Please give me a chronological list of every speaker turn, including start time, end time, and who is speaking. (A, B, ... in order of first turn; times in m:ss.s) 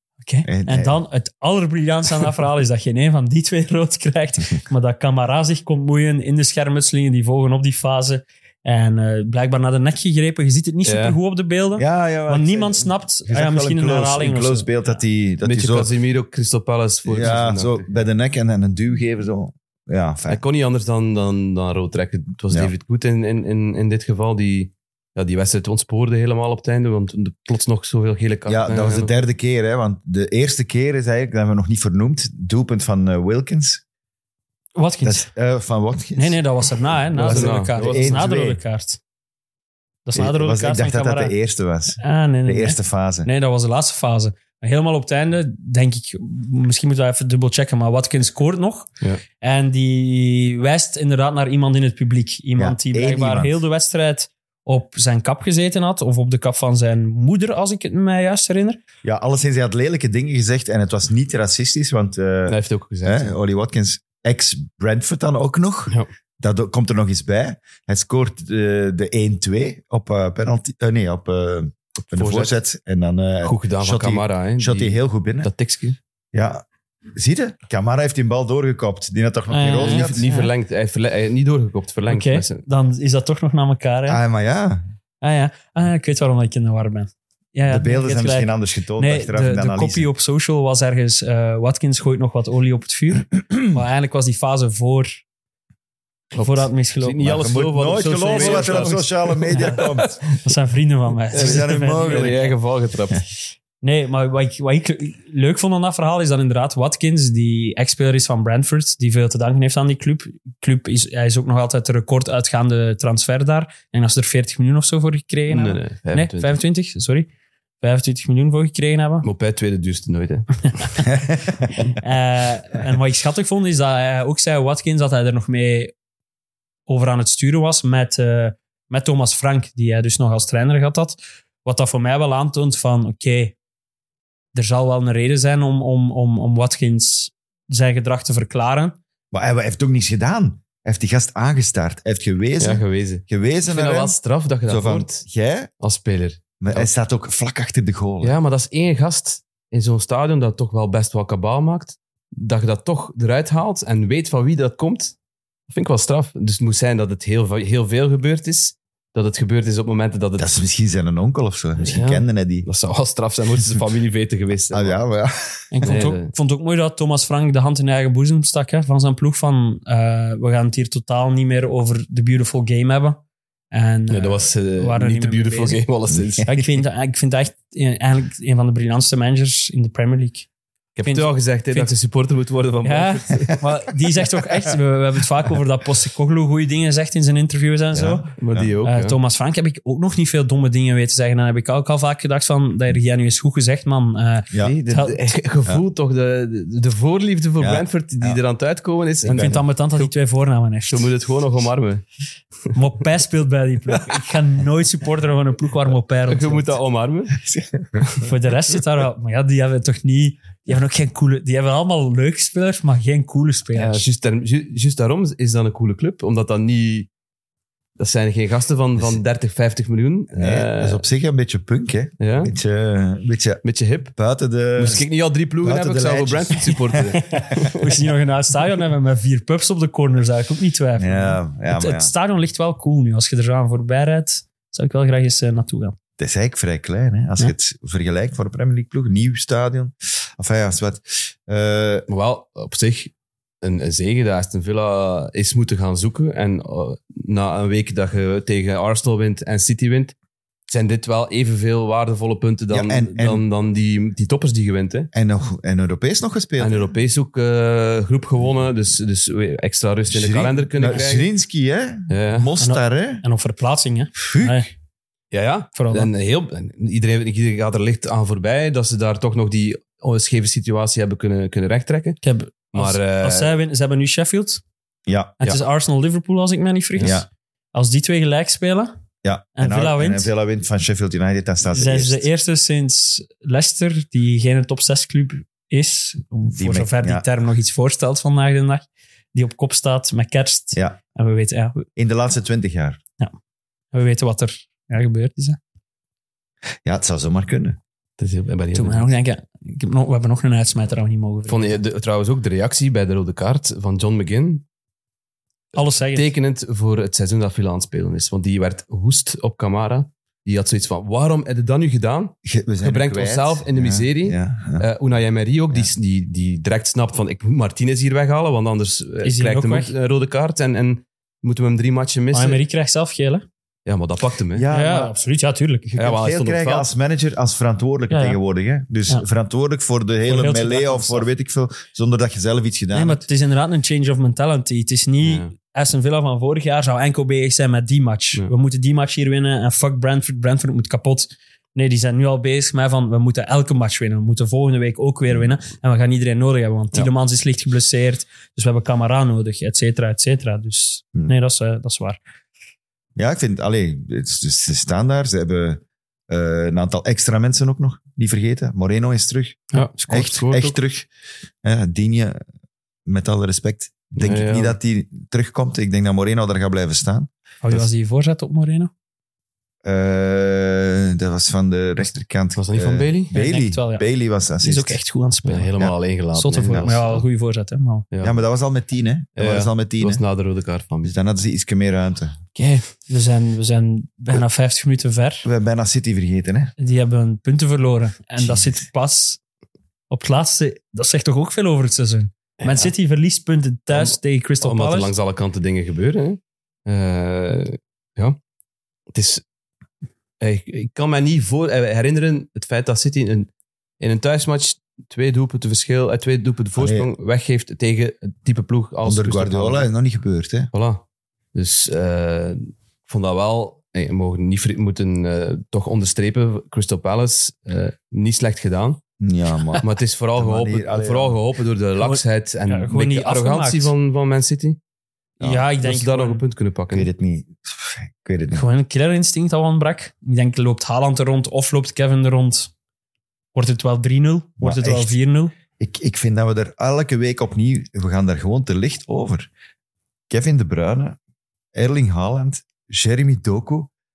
0:00.2-0:14.8 A
0:00.4-0:01.0 B
0:10.8-0:11.2 C
0:11.8-0:15.9 B
0:15.4-0:17.9 C
0:17.1-0:20.4 B
0:20.3-0:29.1 C
0:28.5-0:33.8 B
0:34.8-0:35.3 A
0:35.0-0:36.4 B
0:36.2-0:39.0 A
0:37.2-0:38.2 C
0:37.2-0:38.6 B
0:40.1-0:41.3 A
0:40.2-0:43.3 B
0:42.0-0:48.9 A
0:49.4-0:58.8 A
0:52.6-0:53.6 B
0:59.0-1:15.5 B
1:02.5-1:03.4 C
1:12.1-1:12.6 C
1:13.4-1:16.0 C
1:16.3-1:16.6 B
1:17.2-1:20.2 B
1:19.5-1:20.5 A
1:19.7-1:22.6 C
1:22.1-1:24.2 A
1:24.1-1:24.8 B
1:25.2-1:35.1 A
1:27.7-1:30.1 B
1:36.3-1:40.2 C
1:36.4-1:37.3 A
1:37.2-1:40.2 B
1:38.2-1:39.0 A
1:39.6-1:39.8 A
1:40.4-1:42.6 A
1:41.3-1:43.2 C
1:41.3-1:42.4 B
1:43.8-1:57.3 A
1:55.5-1:56.6 C
1:57.8-1:59.3 A
1:59.2-2:00.9 C
2:01.1-2:01.5 B
2:01.9-2:05.9 A
2:06.9-2:13.6 A
2:14.5-2:19.0 A
2:19.3-2:25.7 B
2:22.6-2:25.2 C
2:25.8-2:26.9 C
2:26.6-2:28.4 B
2:28.2-2:35.2 C
2:35.7-2:40.6 C
2:40.4-2:42.7 B
2:41.8-2:45.0 C
2:44.7-2:45.7 B
2:45.7-2:53.2 A
2:45.8-2:46.3 C
2:53.7-2:55.8 A
2:54.1-2:56.5 C
2:56.1-2:56.6 B
2:56.4-3:00.5 A
3:01.0-3:03.6 C
3:01.0-3:01.9 A
3:02.8-3:08.3 A
3:07.9-3:08.7 B
3:08.4-3:09.2 C
3:08.8-3:15.2 A
3:14.5-3:14.8 B
3:14.6-3:20.1 C
3:17.6-3:18.4 B
3:19.3-3:21.1 A
3:20.9-3:22.0 C
3:22.8-3:26.8 A
3:26.3-3:27.4 C
3:27.5-3:27.8 B
3:28.2-3:34.0 A
3:33.8-3:37.1 C
3:38.0-3:41.0 C
3:40.4-3:43.6 B
3:42.2-3:42.5 C
3:43.6-3:44.1 C
3:44.2-3:45.0 B
3:44.8-3:47.7 C
3:45.6-3:47.7 B
3:47.2-3:56.0 A
3:51.0-3:52.1 B
3:56.2-4:02.1 B
4:02.1-4:10.2 C
4:10.7-4:15.1 C
4:12.7-4:13.4 B
4:15.1-4:16.9 B
4:16.6-4:21.3 C
4:20.1-4:23.2 B
4:22.1-4:22.5 C
4:22.6-4:24.7 A
4:24.2-4:24.7 B
4:25.3-4:32.2 C
4:25.8-4:26.1 A
4:32.2-4:34.6 A
4:32.7-4:33.5 C
4:35.1-4:35.4 B
4:35.4-4:37.2 A
4:37.7-4:38.9 A
4:39.2-4:42.2 B
4:39.6-4:40.3 A
4:41.7-4:51.8 A
4:46.5-4:47.2 B
4:52.0-4:53.0 B
4:53.9-4:55.6 A
4:56.8-4:57.8 B
4:58.2-4:59.1 C
4:58.7-5:01.8 A
5:01.5-5:04.6 C
5:05.7-5:06.3 A
5:06.0-5:22.6 C
5:12.4-5:14.9 B
5:19.2-5:19.9 A
5:22.3-5:23.4 A
5:23.9-5:24.7 C
5:24.6-5:25.2 B
5:24.7-5:25.9 A
5:25.9-5:33.2 B
5:26.0-5:26.9 C
5:28.1-5:28.4 A
5:30.3-5:31.3 A
5:32.9-5:52.2 A
5:35.2-5:35.5 C
5:53.2-6:01.1 B
5:59.7-6:00.8 C
6:01.6-6:02.4 B
6:03.1-6:07.3 B
6:04.2-6:04.8 C
6:07.6-6:08.9 A
6:09.8-6:15.0 B
6:12.6-6:13.3 C
6:13.3-6:14.0 A
6:14.6-6:15.7 A
6:15.4-6:17.2 C
6:16.3-6:18.0 A
6:18.1-6:18.4 C
6:18.2-6:20.2 B
6:19.4-6:21.2 C
6:21.0-6:22.4 B
6:22.6-6:22.9 C
6:23.1-6:25.5 A
6:25.4-6:26.7 B
6:26.8-6:29.4 A
6:28.4-6:28.7 B
6:30.1-6:35.1 A
6:32.6-6:32.9 C
6:33.9-6:38.4 C
6:39.1-6:39.4 C
6:40.4-6:43.5 C
6:44.0-6:49.9 C
6:46.8-6:47.1 B
6:49.0-6:50.7 B
6:50.7-6:51.0 C
6:51.6-6:59.0 C
6:59.2-7:01.4 B
6:59.8-7:04.8 C
7:02.0-7:03.9 A
7:05.4-7:06.4 A
7:05.8-7:07.1 C
7:06.9-7:08.7 B
7:08.5-7:12.7 A
7:13.5-7:15.5 A
7:14.6-7:15.1 B
7:15.8-7:19.5 B
7:20.3-7:21.2 B
7:21.7-7:23.9 B